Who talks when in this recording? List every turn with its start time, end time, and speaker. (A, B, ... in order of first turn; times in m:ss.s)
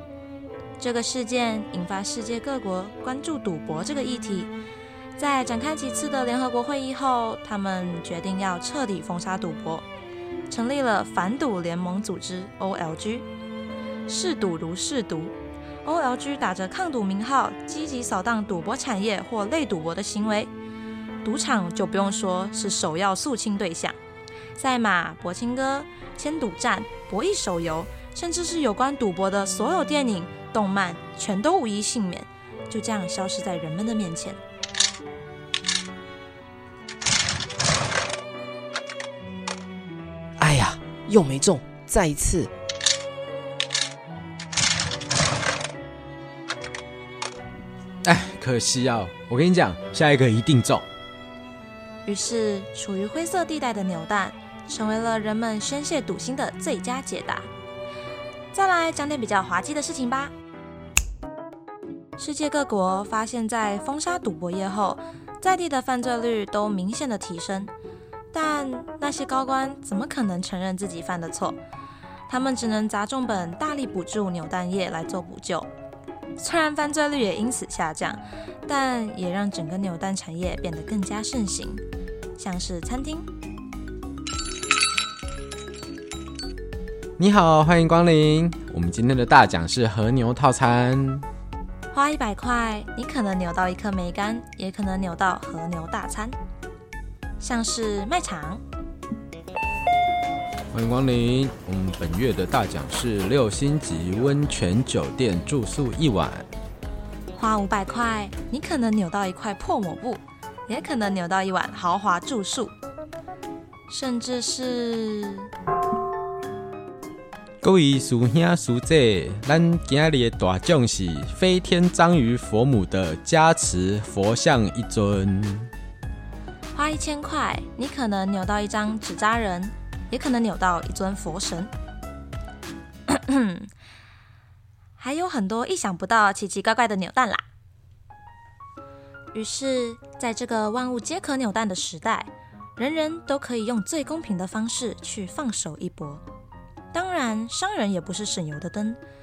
0:00.8-0:04.5 A
0:05.2-0:09.9 A
0:10.5-0:13.3 A
0:14.1-0:15.3 A
0:15.8-0:20.5 A
0:21.2-0:24.0 A
0:24.6-0:34.4 A
0:40.4-0:42.5 B
0:48.0-0:50.9 C
0:52.1-0:57.5 A
0:58.5-1:00.3 A
1:02.2-1:07.7 A
1:08.3-1:11.6 A
1:12.3-1:15.7 A
1:16.4-1:21.8 A
1:22.4-1:23.3 A
1:27.2-1:31.3 C
1:31.9-1:36.4 A
1:37.4-1:38.6 A
1:40.7-1:46.5 C
1:47.4-1:52.7 A
1:53.9-1:55.5 A
1:57.6-2:05.7 C
2:06.8-2:11.7 A
2:13.1-2:13.7 A
2:15.0-2:17.4 A
2:19.3-2:26.2 A
2:26.9-2:29.0 A